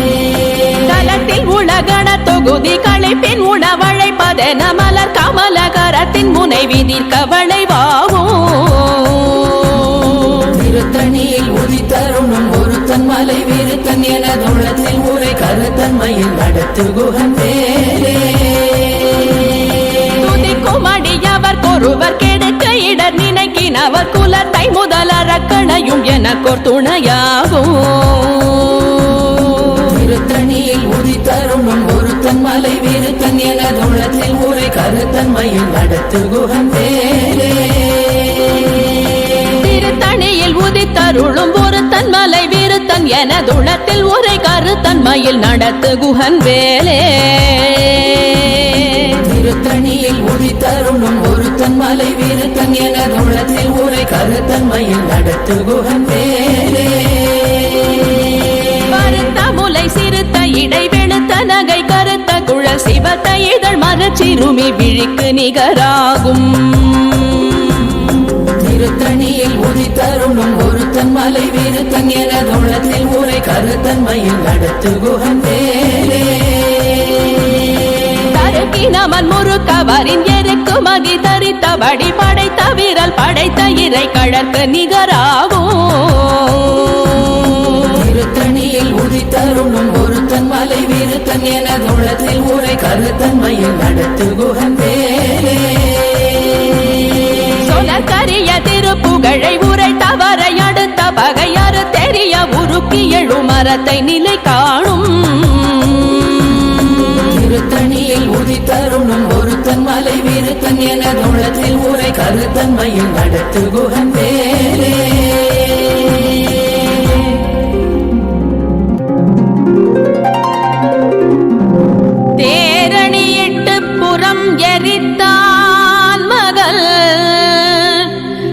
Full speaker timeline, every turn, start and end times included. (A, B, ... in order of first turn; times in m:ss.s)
0:00.8-0:10.5 A
0:10.5-0:18.7 B
0:20.1-0:29.8 A
0:29.9-0:37.9 B
0:39.5-0:49.2 A
0:49.2-0:57.5 B
0:58.8-1:07.9 A
1:08.6-1:16.8 B
1:18.2-1:27.8 A
1:28.0-1:36.1 B
1:37.6-1:46.4 A
1:47.2-1:55.8 B
2:02.4-2:08.2 A